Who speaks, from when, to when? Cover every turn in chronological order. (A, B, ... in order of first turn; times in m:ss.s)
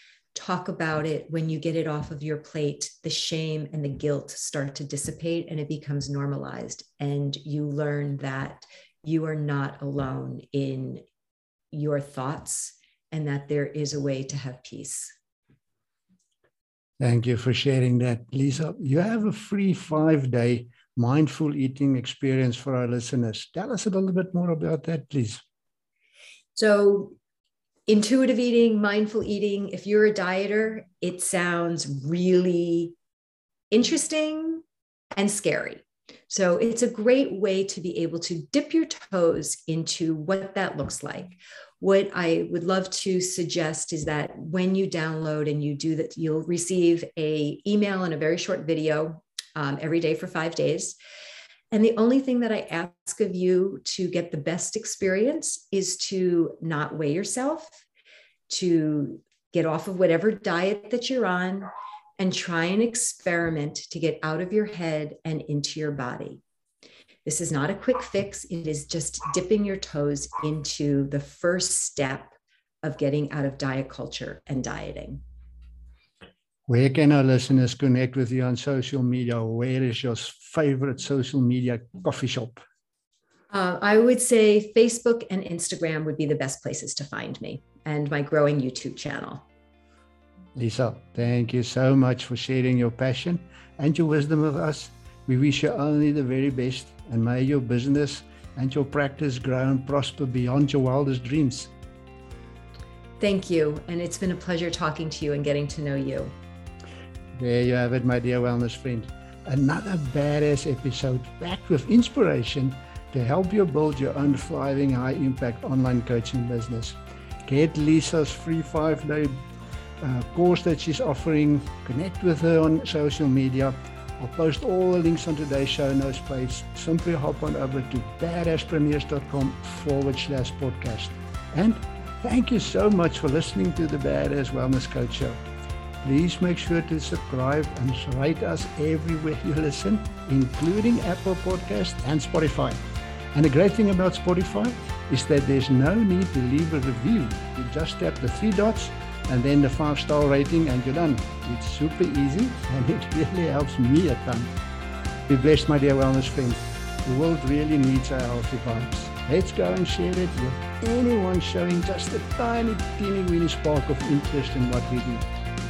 0:00.3-0:11.0 A
0:11.7-0:15.1 A
0:17.0-0:25.4 B
0:26.6-0:27.1 A
0:27.9-0:33.0 A
0:33.7-0:34.6 A
0:35.2-0:51.0 A
0:51.7-0:57.8 A
0:58.5-1:06.4 A
1:07.2-1:15.2 A
1:16.7-1:22.6 B
1:23.5-1:29.4 A
1:30.6-1:41.7 B
1:43.2-1:46.3 A
1:47.4-1:59.4 B
2:00.0-2:15.4 B
2:16.0-2:22.8 B
2:23.3-2:34.5 B
2:35.3-2:45.2 B